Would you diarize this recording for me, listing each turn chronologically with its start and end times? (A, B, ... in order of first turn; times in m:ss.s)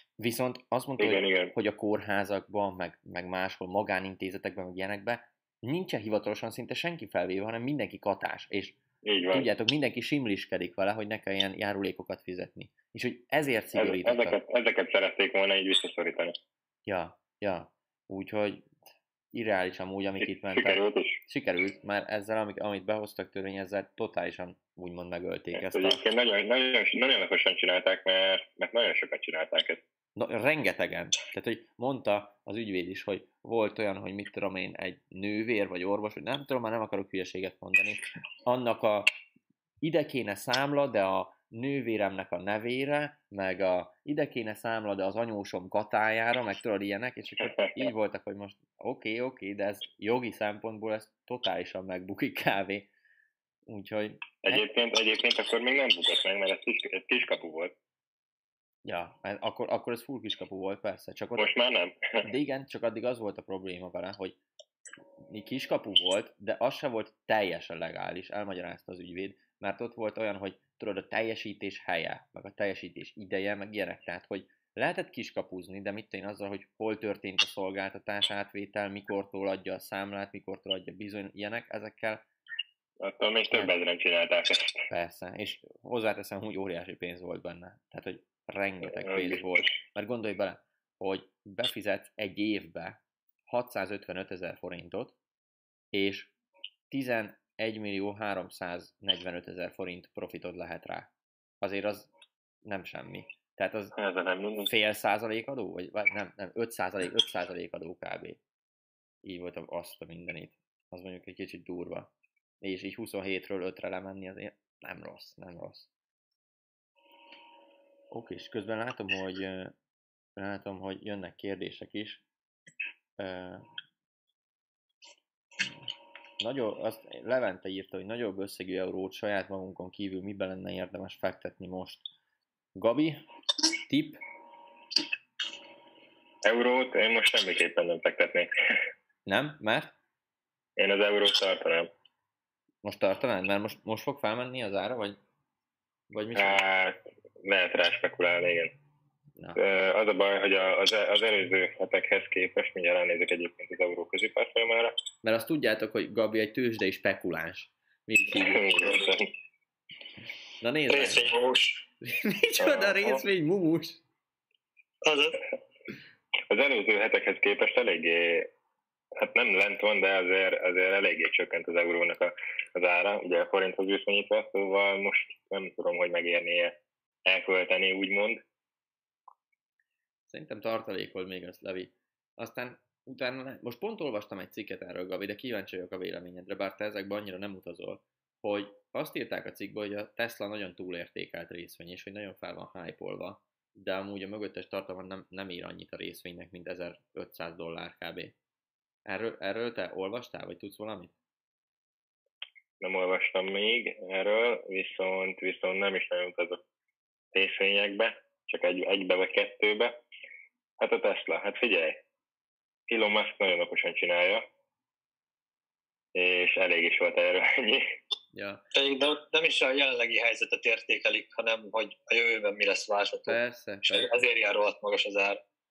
0:00.2-0:08.8 A
0:01.0-0:01.5 B
0:09.0-0:09.5 B
0:09.3-0:14.4 A
0:13.8-0:16.3 B
0:16.8-0:18.7 A
0:19.3-0:26.0 A
0:20.5-0:21.2 B
0:25.6-0:29.8 B
0:30.2-0:39.1 A
0:39.8-0:52.9 A
0:53.6-0:54.6 A
0:54.4-0:57.7 B
0:58.8-1:01.5 A
1:01.4-1:02.3 B
1:02.2-1:04.4 A
1:05.3-1:22.2 A
1:23.0-1:24.8 B
1:24.9-1:35.2 A
1:28.9-1:29.4 B
1:35.9-1:36.3 A
1:36.9-1:42.1 A
1:42.6-1:43.9 A
1:44.0-1:44.7 B
1:44.7-1:48.4 A
1:49.2-1:55.9 A
1:58.1-1:59.7 A
2:00.4-2:02.2 A
2:03.2-2:03.6 A
2:06.4-2:12.0 A
2:12.8-2:13.2 A
2:13.8-2:14.2 A
2:16.4-2:18.5 B
2:19.2-2:19.9 A
2:20.8-2:21.9 B
2:22.8-2:25.2 A
2:26.1-2:26.6 A
2:26.3-2:28.7 B
2:29.6-2:35.0 B
2:35.2-2:39.0 A
2:38.3-2:39.3 B
2:40.6-2:41.3 A
2:40.9-2:41.8 C
2:42.0-2:44.0 A
2:42.6-2:43.2 B
2:45.0-2:45.4 C
2:46.5-2:48.5 B
2:49.2-2:58.4 B
3:00.3-3:18.4 A
3:19.0-3:21.1 A
3:22.8-3:26.6 B
3:27.3-3:29.9 B
3:30.8-3:32.0 B
3:32.9-3:34.4 B
3:36.1-3:37.8 B
3:38.3-3:38.6 A
3:38.7-3:45.4 C
3:43.3-3:44.2 A